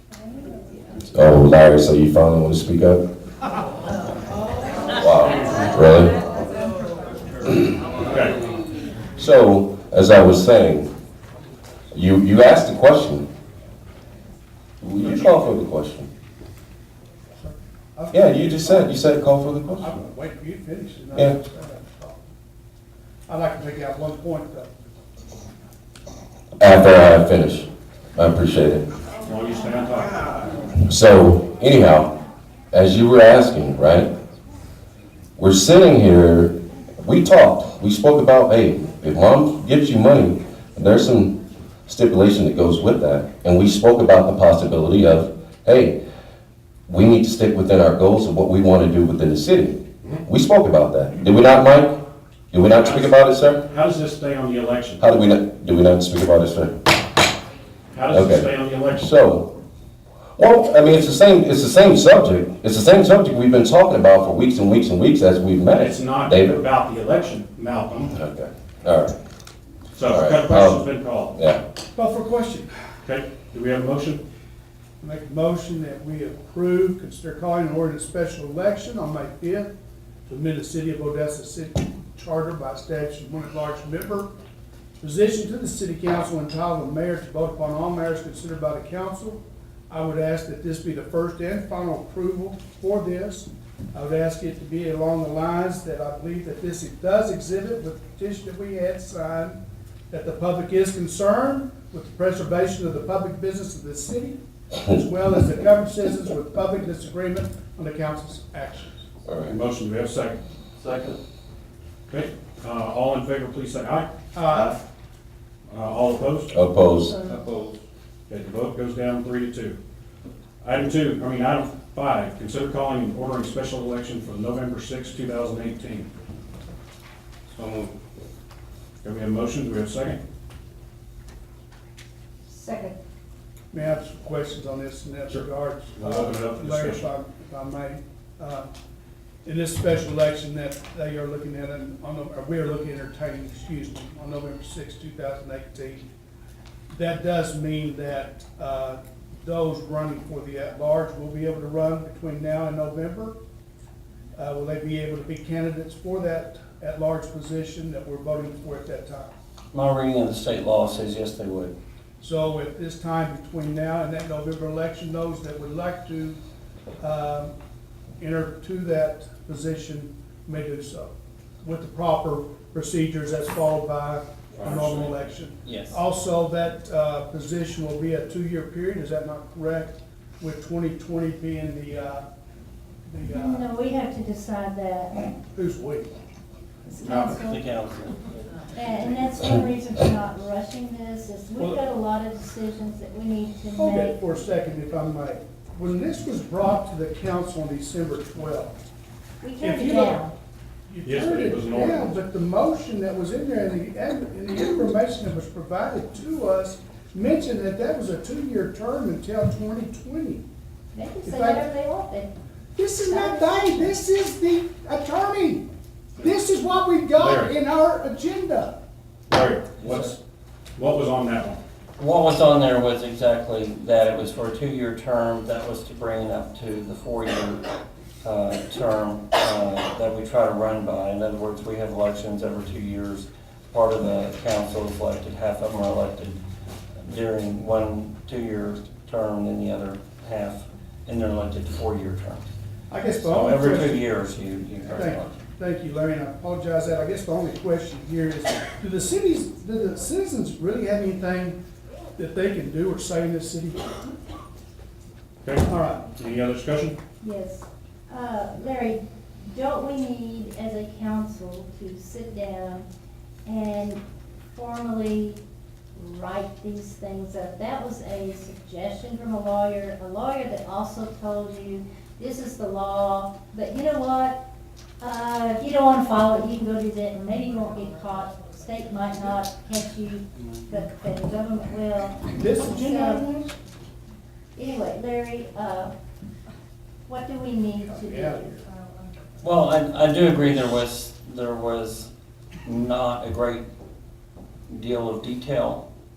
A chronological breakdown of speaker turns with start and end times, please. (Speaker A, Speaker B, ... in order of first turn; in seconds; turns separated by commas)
Speaker A: 1.1-3.0, Speaker A: 5.0-6.2, Speaker B: 8.0-8.4, Speaker A: 9.2-10.9, Speaker A: 11.9-13.2, Speaker A: 14.8-16.1, Speaker C: 17.4-18.9, Speaker A: 18.1-20.0, Speaker C: 19.8-22.3, Speaker C: 23.3-24.7, Speaker A: 26.6-28.9, Speaker B: 29.2-30.2, Speaker A: 30.9-32.1, Speaker A: 32.7-34.1, Speaker A: 35.4-46.0, Speaker A: 46.9-52.0, Speaker A: 52.5-53.6, Speaker B: 52.7-55.1, Speaker A: 55.0-56.7, Speaker B: 57.9-59.1, Speaker A: 58.1-59.5, Speaker A: 60.4-66.6, Speaker B: 65.7-68.1, Speaker A: 68.1-69.2, Speaker B: 69.9-71.3, Speaker A: 70.1-71.6, Speaker C: 71.9-72.7, Speaker B: 73.0-74.2, Speaker C: 75.0-79.7, Speaker C: 80.3-84.3, Speaker C: 85.0-99.6, Speaker C: 100.1-109.0, Speaker A: 109.2-109.5, Speaker B: 109.5-110.4, Speaker D: 110.8-111.2, Speaker B: 112.1-114.1, Speaker C: 114.3-114.7, Speaker B: 115.7-116.5, Speaker A: 116.5-117.2, Speaker D: 117.3-117.7, Speaker B: 118.3-119.8, Speaker B: 120.6-126.1, Speaker B: 129.0-130.2, Speaker E: 132.5-133.0, Speaker C: 133.7-138.7, Speaker B: 135.9-137.1, Speaker C: 139.4-146.1, Speaker C: 146.9-153.3, Speaker C: 154.3-159.3, Speaker D: 159.7-161.7, Speaker C: 162.2-166.4, Speaker C: 167.0-167.5, Speaker C: 168.2-182.3, Speaker B: 174.6-175.1, Speaker D: 174.7-175.1, Speaker D: 175.6-176.0, Speaker C: 183.1-183.7, Speaker E: 183.3-185.2, Speaker C: 185.5-186.1, Speaker E: 186.9-187.6, Speaker D: 187.0-189.4, Speaker E: 188.8-194.2, Speaker C: 193.8-198.8, Speaker E: 199.4-200.3, Speaker C: 199.6-200.3, Speaker C: 200.9-210.4, Speaker B: 201.0-202.2, Speaker E: 210.9-212.3, Speaker C: 211.2-211.7, Speaker C: 212.8-218.8, Speaker E: 213.0-214.0, Speaker B: 217.2-217.6, Speaker B: 219.3-220.2, Speaker D: 219.8-220.1, Speaker B: 220.8-221.6, Speaker D: 222.0-227.7, Speaker D: 228.2-236.4, Speaker D: 237.0-242.5, Speaker C: 242.9-244.2, Speaker D: 243.2-245.3, Speaker C: 244.9-251.6, Speaker C: 252.2-253.9, Speaker B: 255.4-256.9, Speaker C: 255.7-256.1, Speaker E: 257.2-262.9, Speaker E: 263.4-264.0, Speaker E: 264.5-265.4, Speaker E: 265.9-274.4, Speaker E: 275.0-283.4, Speaker C: 282.3-283.5, Speaker E: 284.6-285.9, Speaker E: 287.1-288.4, Speaker C: 287.9-288.6, Speaker D: 289.4-292.1, Speaker D: 292.6-293.7, Speaker D: 294.7-295.8